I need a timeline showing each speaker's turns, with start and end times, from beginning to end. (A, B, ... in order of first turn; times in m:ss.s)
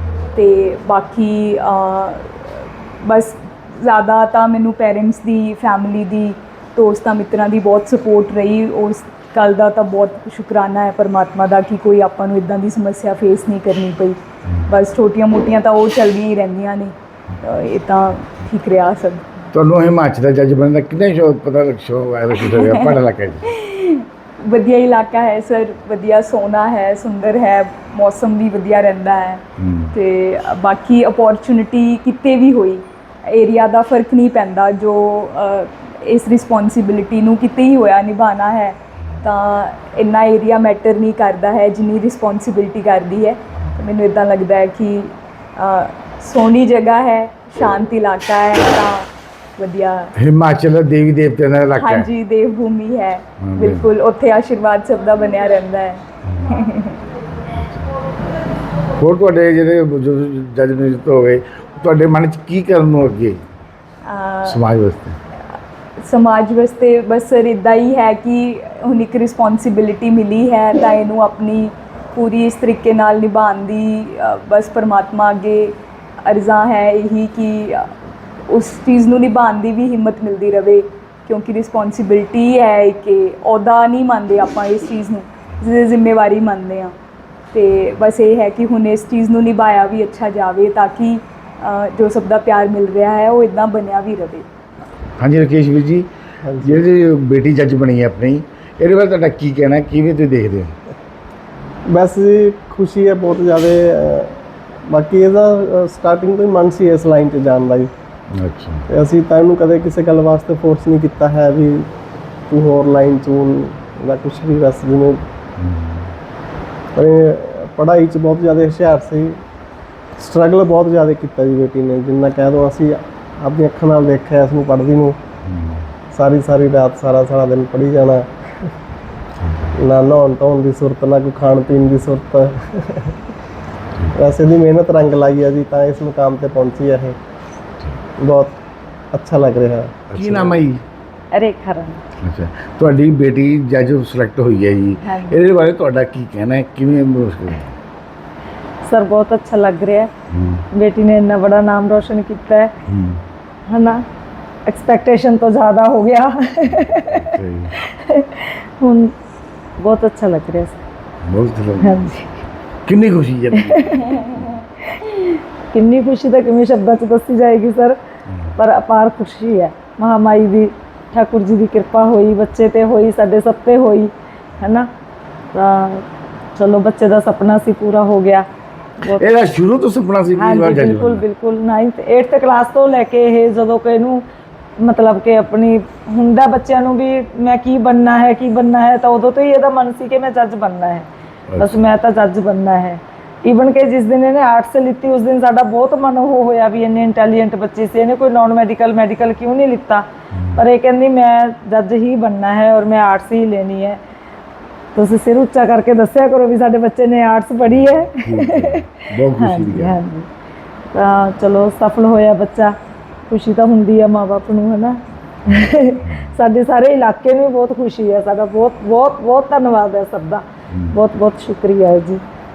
0:00.3-0:19.3 A
0:19.5-0:23.5 B
0:22.4-0:50.2 A
0:29.6-0:29.9 B
0:50.2-0:52.1 B
0:51.8-0:57.0 A
0:53.4-0:53.9 B
0:57.5-0:57.9 B
0:58.9-1:03.4 B
1:04.0-1:04.6 A
1:04.5-1:05.2 B
1:06.0-1:17.9 A
1:18.5-1:26.9 A
1:27.5-1:34.5 A
1:35.2-1:36.1 B
1:36.4-1:36.8 C
1:36.6-1:40.8 B
1:41.9-1:47.9 C
1:48.3-1:48.9 B
1:48.9-1:51.9 C
1:52.5-1:55.2 C
1:55.6-1:56.1 B
1:57.0-1:59.4 C
2:00.2-2:05.2 C
2:05.5-2:05.8 B
2:06.1-2:08.7 C
2:09.7-2:13.2 C
2:14.1-2:17.2 C
2:18.2-2:18.6 C
2:19.1-2:20.6 C
2:20.1-2:20.8 B
2:21.3-2:22.0 D
2:22.2-2:27.8 B
2:25.0-2:25.4 D
2:28.8-2:30.1 D
2:30.3-2:30.6 B
2:30.7-2:32.7 D
2:32.9-2:33.2 B
2:33.7-2:34.0 D
2:34.7-2:37.3 D
2:36.7-2:37.7 B
2:37.8-2:39.1 D
2:39.8-2:40.8 D
2:41.2-2:42.0 B
2:41.8-2:42.3 D
2:42.9-2:44.5 B
2:43.5-2:44.0 D
2:45.0-2:48.0 D
2:48.6-2:54.9 D
2:55.5-2:56.0 D
2:56.6-2:58.5 D
2:59.0-3:01.2 B
3:00.4-3:04.2 D
3:04.8-3:24.0 D
3:11.5-3:11.8 B
3:25.0-3:30.3 D
3:27.7-3:30.0 B
3:30.9-3:32.7 D
3:33.3-3:42.2 D
3:40.7-3:41.0 B